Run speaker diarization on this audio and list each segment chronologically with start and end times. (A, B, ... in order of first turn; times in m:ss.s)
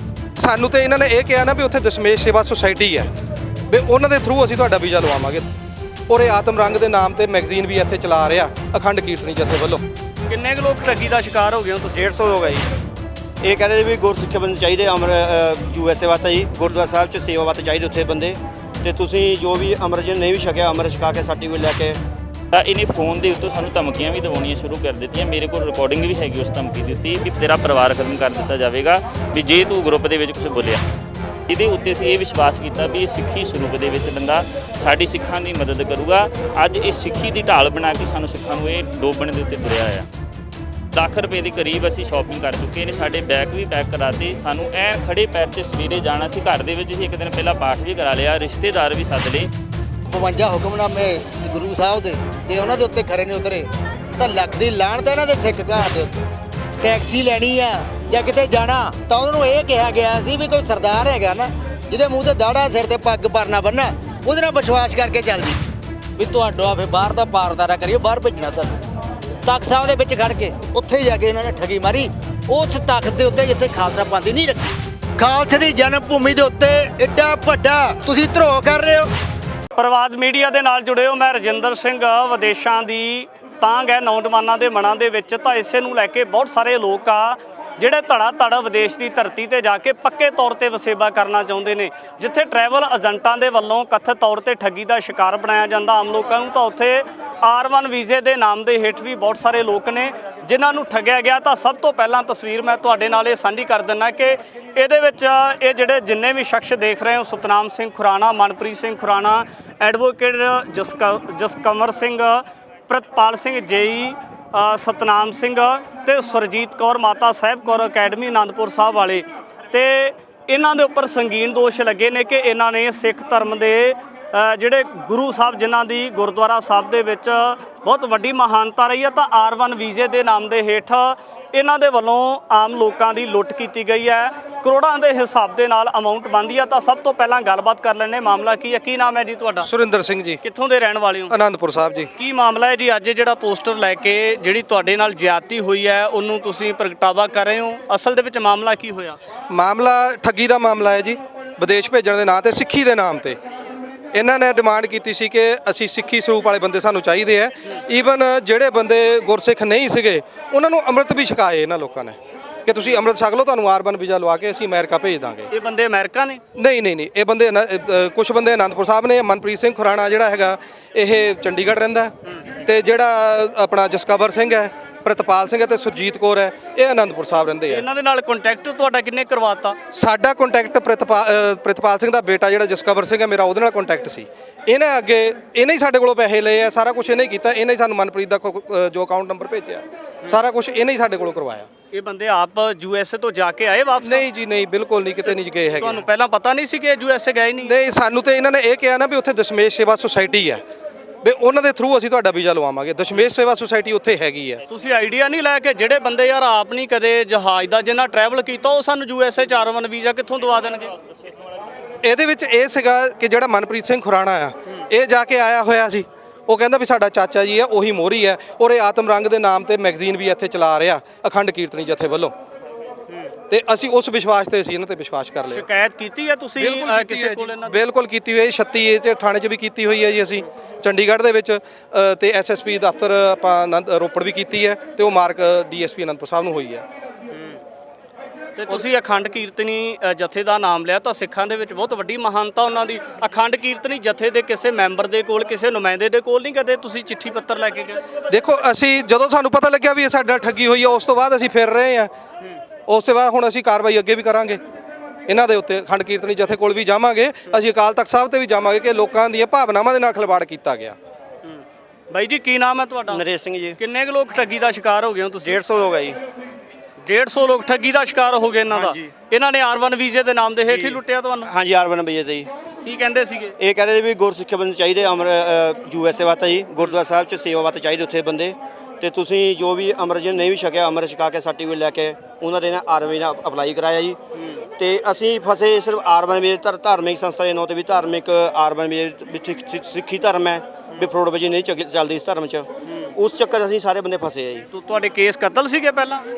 0:00.4-0:03.1 A
0:03.7-0:05.5 A
0:06.1-0:09.8 A
0:10.3-0:12.4 B
0:13.5-0:22.0 C
0:22.5-0:30.8 D
0:31.5-0:40.1 D
0:40.9-0:49.5 D
0:50.1-0:56.2 E
0:56.8-1:05.6 E
1:06.2-1:08.8 E
1:09.4-1:19.1 E
1:19.8-2:19.7 B
2:19.6-2:20.4 A
2:20.4-2:21.3 B
2:21.3-2:22.1 A
2:22.2-2:29.2 B
2:29.5-2:33.4 A
2:34.1-2:45.5 A
2:45.5-2:46.4 B
2:46.6-2:52.1 A
2:52.6-2:57.8 A
2:57.7-2:59.8 B
2:59.9-3:11.7 A
3:11.9-3:14.2 B
3:14.0-3:16.0 A
3:15.2-3:17.7 B
3:17.6-3:20.6 A
3:21.2-3:24.6 A
3:24.7-3:31.0 B
3:32.0-3:42.3 A
3:43.5-3:45.6 A
3:45.5-3:47.8 B
3:46.6-3:56.8 A
3:58.6-4:08.0 B
4:08.3-4:12.1 A
4:12.9-4:14.6 A
4:15.3-4:21.0 A
4:21.4-4:23.2 B
4:23.8-4:25.6 B
4:25.8-4:26.1 C
4:27.0-4:31.5 B
4:31.6-4:32.5 C
4:32.8-4:33.6 B
4:33.8-4:44.2 C
4:44.8-4:52.6 C
4:53.2-4:54.6 C
4:54.7-4:56.2 B